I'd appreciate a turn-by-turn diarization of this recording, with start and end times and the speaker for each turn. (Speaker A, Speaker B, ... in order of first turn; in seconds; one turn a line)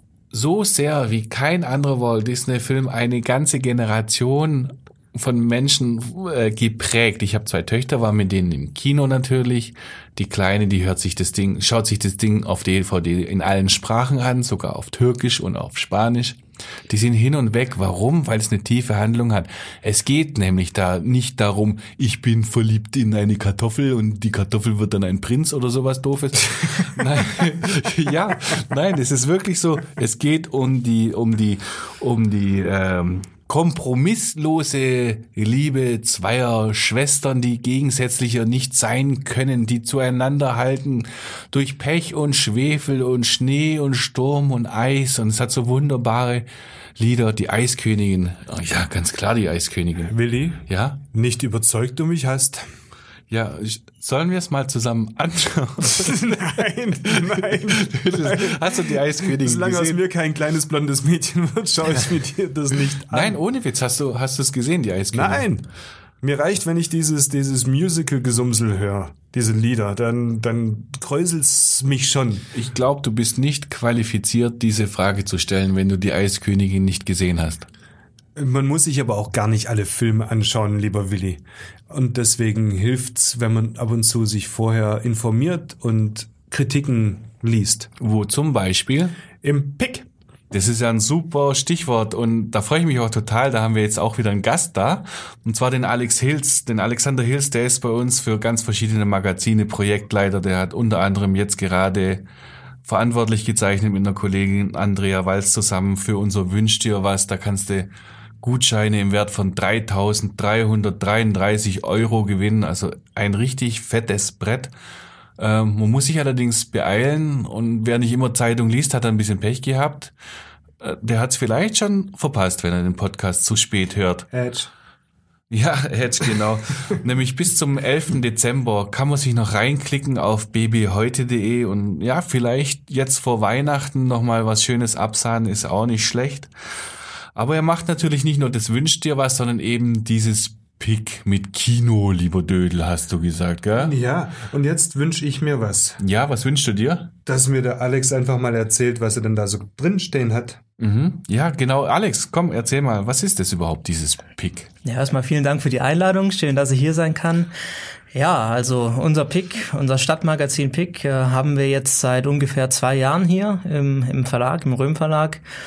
Speaker A: 0.3-50.1
Speaker B: 50.1-52.7
Speaker A: 50.7-51.0
Speaker A: 53.3-56.4
Speaker B: 55.9-63.4
Speaker A: 57.1-60.0
Speaker A: 63.1-65.5
Speaker B: 65.1-65.7
Speaker B: 66.2-72.5
Speaker A: 72.5-77.7
Speaker B: 78.3-87.9
Speaker A: 88.0-89.2
Speaker B: 89.4-90.1
Speaker A: 90.5-102.2
Speaker A: 102.8-107.9
Speaker A: 108.4-114.7
Speaker A: 115.4-120.1
Speaker A: 120.8-124.3
Speaker B: 124.3-124.7
Speaker A: 125.5-136.5
Speaker A: 137.3-144.0
Speaker B: 143.8-146.0
Speaker A: 146.0-147.1
Speaker B: 147.3-150.6
Speaker A: 150.8-154.7
Speaker C: 154.8-157.5
Speaker C: 158.1-165.4